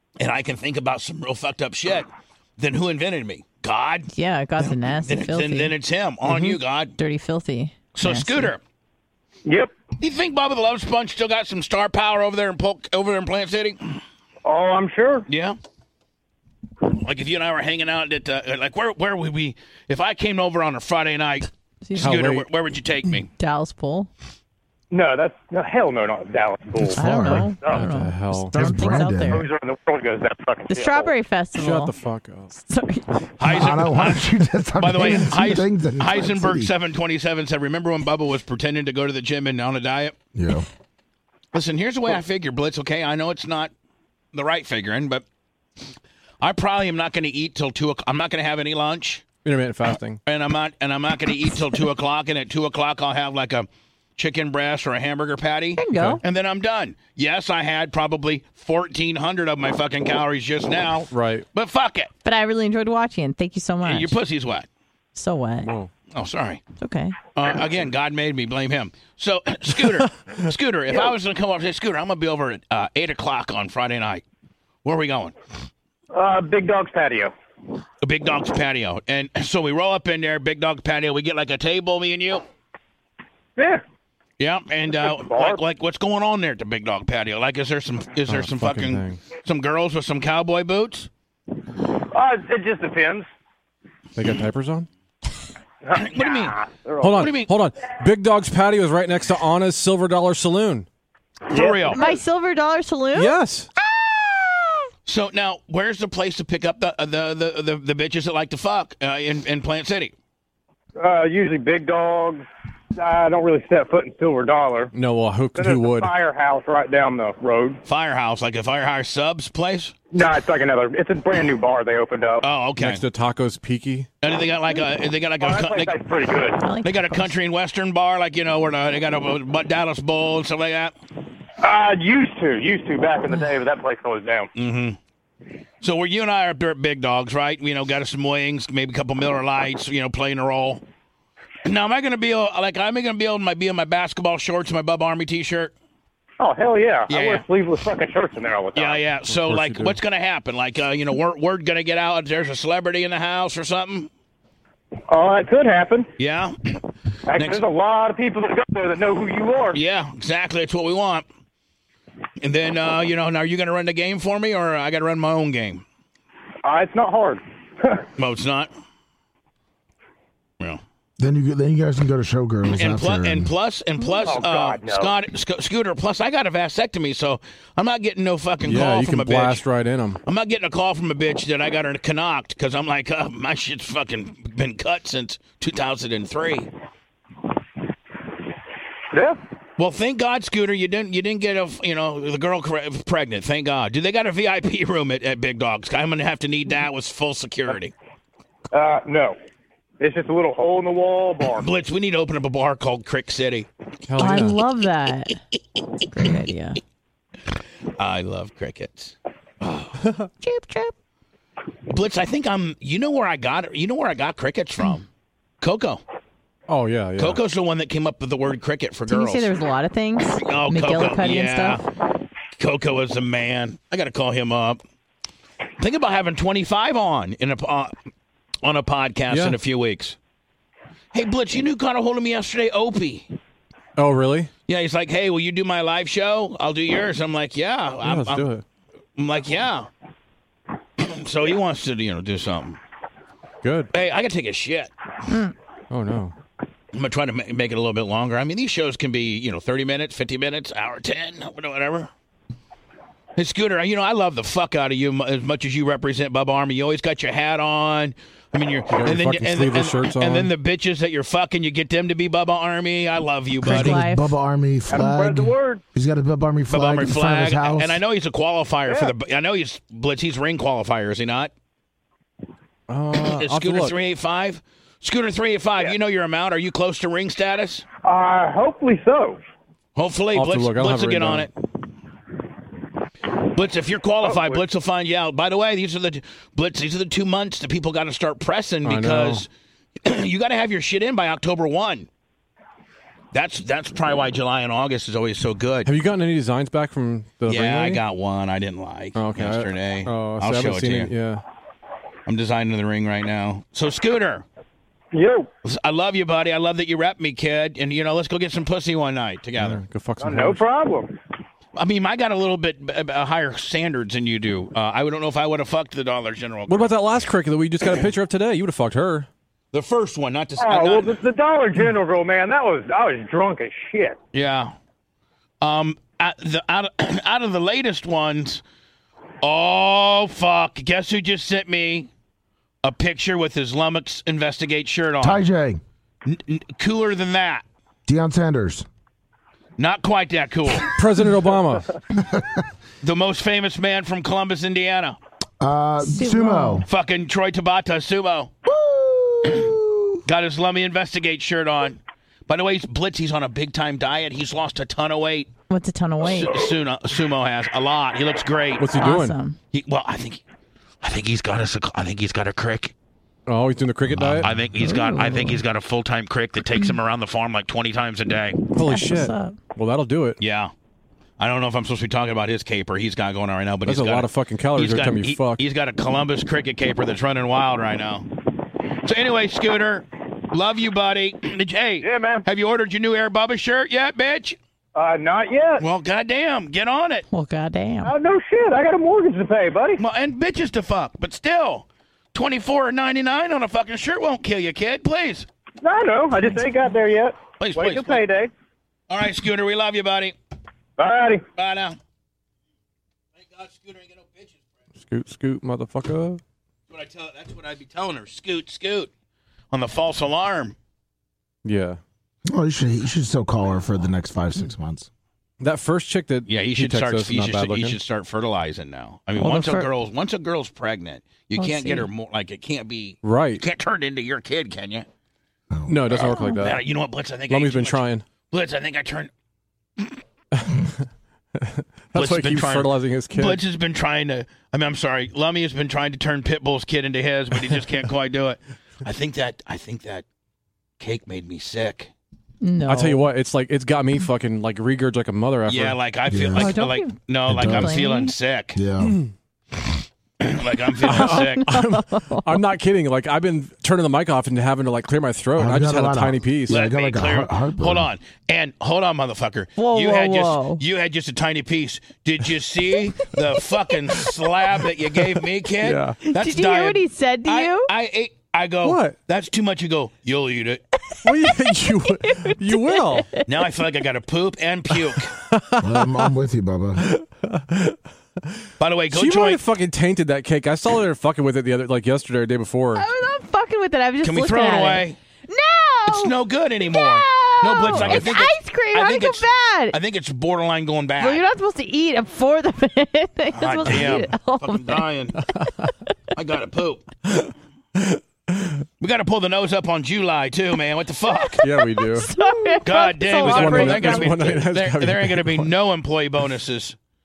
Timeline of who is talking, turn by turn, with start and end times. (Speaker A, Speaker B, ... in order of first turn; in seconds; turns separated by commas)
Speaker A: 0.2-7.0, Speaker B: 4.1-5.7, Speaker C: 6.3-6.5, Speaker B: 7.0-8.5, Speaker A: 8.0-8.6, Speaker D: 9.5-9.7, Speaker A: 10.0-14.0, Speaker D: 14.4-15.3, Speaker A: 15.3-15.6, Speaker A: 16.8-23.3, Speaker B: 21.8-22.2, Speaker C: 22.0-22.5, Speaker B: 23.3-24.1, Speaker D: 24.9-27.0, Speaker E: 26.9-27.5, Speaker B: 26.9-29.5, Speaker C: 27.1-29.0, Speaker E: 28.5-29.4, Speaker D: 29.3-31.1, Speaker B: 30.7-31.9, Speaker C: 31.6-32.5, Speaker B: 32.6-33.1, Speaker A: 33.4-40.2, Speaker E: 33.5-36.7, Speaker E: 40.3-40.7, Speaker A: 41.5-43.7, Speaker A: 44.3-45.2, Speaker A: 46.4-49.3, Speaker C: 49.4-50.2, Speaker A: 50.2-62.1, Speaker B: 55.8-56.2, Speaker C: 55.9-56.2, Speaker C: 61.1-61.5, Speaker B: 62.2-64.2, Speaker A: 63.8-64.7, Speaker B: 65.2-65.7, Speaker C: 65.6-65.9, Speaker A: 66.1-66.6, Speaker B: 66.8-67.2, Speaker A: 67.3-74.2, Speaker A: 74.8-75.3, Speaker D: 76.1-77.3, Speaker A: 78.0-82.4, Speaker D: 83.6-83.8, Speaker A: 84.4-91.1, Speaker D: 85.0-85.6, Speaker C: 88.3-89.2, Speaker D: 92.1-93.3, Speaker C: 94.2-94.9, Speaker D: 95.9-97.3, Speaker A: 95.9-96.6, Speaker C: 97.0-100.9, Speaker A: 97.2-97.5, Speaker A: 101.5-102.1, Speaker D: 101.5-102.1, Speaker B: 101.9-103.4, Speaker C: 103.1-103.7, Speaker A: 105.0-110.1, Speaker D: 111.0-114.9, Speaker C: 114.9-116.1, Speaker D: 115.6-117.8, Speaker A: 117.8-119.9, Speaker D: 120.1-122.4, Speaker A: 122.4-123.0, Speaker C: 122.8-124.1, Speaker A: 124.2-126.0, Speaker D: 125.4-126.6, Speaker B: 126.6-127.3, Speaker A: 126.8-130.9, Speaker D: 131.6-134.5, Speaker A: 134.6-135.0, Speaker A: 135.8-140.8, Speaker A: 141.7-145.7, Speaker D: 146.4-149.0, Speaker A: 147.1-147.4, Speaker A: 148.8-154.1, Speaker C: 149.3-150.0, Speaker D: 155.1-156.1, Speaker A: 156.2-156.8, Speaker D: 157.3-159.8, Speaker A: 157.3-157.6, Speaker A: 159.7-161.3, Speaker A: 162.4-165.8, Speaker D: 166.6-168.1, Speaker A: 168.2-168.7, Speaker E: 171.2-173.5, Speaker A: 172.7-179.7, Speaker D: 174.2-175.1, Speaker C: 178.6-180.2, Speaker A: 180.3-186.7, Speaker D: 189.1-189.4, Speaker A: 189.8-197.9, Speaker D: 198.7-199.4, Speaker D: 200.0-201.7, Speaker A: 201.6-203.7, Speaker C: 204.1-204.6, Speaker B: 204.2-205.4, Speaker B: 206.1-206.8, Speaker A: 208.0-210.0, Speaker B: 210.4-210.9, Speaker A: 211.9-215.1, Speaker A: 215.6-216.0, Speaker C: 216.7-217.4, Speaker A: 217.2-219.5, Speaker B: 219.1-221.8, Speaker A: 220.4-221.8, Speaker A: 222.6-224.8, Speaker A: 225.8-227.9, Speaker A: 228.6-230.2, Speaker C: 229.3-229.6, Speaker A: 231.1-233.3, Speaker C: 234.0-234.5, Speaker A: 234.7-238.5, Speaker C: 238.0-238.6, Speaker A: 239.2-239.9, Speaker A: 241.0-242.8, Speaker C: 243.6-243.9, Speaker A: 243.9-244.9, Speaker B: 245.3-245.5, Speaker C: 245.9-246.3, Speaker A: 246.9-252.1, Speaker A: 253.4-264.0, Speaker C: 258.9-260.5, Speaker B: 263.6-264.4, Speaker E: 263.6-268.0, Speaker D: 264.9-265.8, Speaker A: 266.7-271.5, Speaker C: 272.9-273.9, Speaker A: 273.2-277.9, Speaker D: 278.0-279.4, Speaker A: 280.0-281.5, Speaker C: 280.3-281.5, Speaker A: 283.5-289.5, Speaker D: 284.3-284.6, Speaker C: 288.8-289.4, Speaker A: 290.0-292.1, Speaker A: 293.3-295.9, Speaker C: 295.9-298.0, Speaker A: 297.5-301.1, Speaker C: 299.2-301.4, Speaker A: 302.3-304.4, Speaker D: 305.1-305.5, Speaker A: 305.6-309.8, Speaker C: 309.6-310.6, Speaker D: 310.2-311.1, Speaker A: 311.8-316.9, Speaker C: 316.7-319.3, Speaker A: 319.7-321.2, Speaker D: 320.6-324.2, Speaker A: 324.3-324.8, Speaker A: 325.6-328.6, Speaker A: 329.4-332.1, Speaker A: 332.8-335.4, Speaker E: 335.2-335.8, Speaker A: 336.2-337.6, Speaker E: 338.1-338.9, Speaker A: 339.8-340.9, Speaker C: 340.9-342.0, Speaker E: 342.1-342.6, Speaker A: 343.0-345.2, Speaker E: 345.6-346.9, Speaker B: 346.0-346.9, Speaker A: 346.9-348.5, Speaker B: 348.9-349.8, Speaker A: 350.2-355.5, Speaker B: 355.7-356.6, Speaker A: 356.2-358.9, Speaker C: 358.8-359.4, Speaker B: 359.0-359.6, Speaker A: 359.7-360.4, Speaker A: 361.0-362.9, Speaker C: 363.5-364.5, Speaker A: 364.2-368.6, Speaker B: 364.8-365.6, Speaker C: 368.7-370.4, Speaker B: 368.8-369.6, Speaker A: 370.4-370.7, Speaker A: 371.4-378.3, Speaker C: 373.9-375.6, Speaker A: 379.0-384.6, Speaker D: 382.0-382.4, Speaker D: 385.0-385.8, Speaker A: 385.8-387.3, Speaker B: 387.3-388.1, Speaker D: 388.1-390.0, Speaker A: 390.0-395.5, Speaker D: 395.8-398.5, Speaker A: 397.6-398.2, Speaker A: 399.1-400.4, Speaker D: 401.0-401.4, Speaker A: 401.6-402.0, Speaker A: 403.4-404.6, Speaker C: 405.0-406.4, Speaker A: 406.9-409.1, Speaker A: 409.7-410.8, Speaker C: 411.6-412.0, Speaker E: 412.5-415.1, Speaker C: 415.6-418.0, Speaker A: 416.5-425.1, Speaker B: 419.4-419.9, Speaker B: 421.6-422.1, Speaker C: 423.2-423.6, Speaker E: 425.7-426.1, Speaker C: 425.9-426.8, Speaker A: 426.1-429.3, Speaker C: 427.5-428.2, Speaker C: 430.6-430.9, Speaker C: 431.6-433.6, Speaker A: 432.1-440.2, Speaker A: 441.0-442.1, Speaker B: 442.6-443.3, Speaker C: 442.9-446.0, Speaker A: 445.7-448.8, Speaker E: 446.3-446.8, Speaker B: 446.5-448.3, Speaker E: 447.5-448.0, Speaker E: 448.8-449.2, Speaker C: 449.1-449.3, Speaker A: 450.4-451.7, Speaker B: 451.0-452.6, Speaker C: 451.1-456.8, Speaker E: 455.6-458.1, Speaker A: 456.7-470.8, Speaker B: 459.8-460.8, Speaker C: 465.8-466.2, Speaker B: 466.3-467.9, Speaker C: 468.8-469.2, Speaker C: 471.2-473.4, Speaker B: 471.2-473.5, Speaker A: 473.4-475.3, Speaker C: 475.1-476.1, Speaker E: 475.8-477.1, Speaker C: 477.0-478.6, Speaker A: 478.8-479.6, Speaker C: 479.1-483.1, Speaker B: 482.9-490.0, Speaker A: 484.2-485.2, Speaker A: 486.1-491.4, Speaker C: 487.9-488.3, Speaker B: 491.2-495.1, Speaker A: 493.5-495.4, Speaker C: 495.5-495.9, Speaker A: 496.3-497.1, Speaker C: 497.3-498.8, Speaker A: 499.0-501.6, Speaker B: 501.4-504.6, Speaker C: 501.6-502.3, Speaker A: 502.8-507.0, Speaker C: 503.4-505.7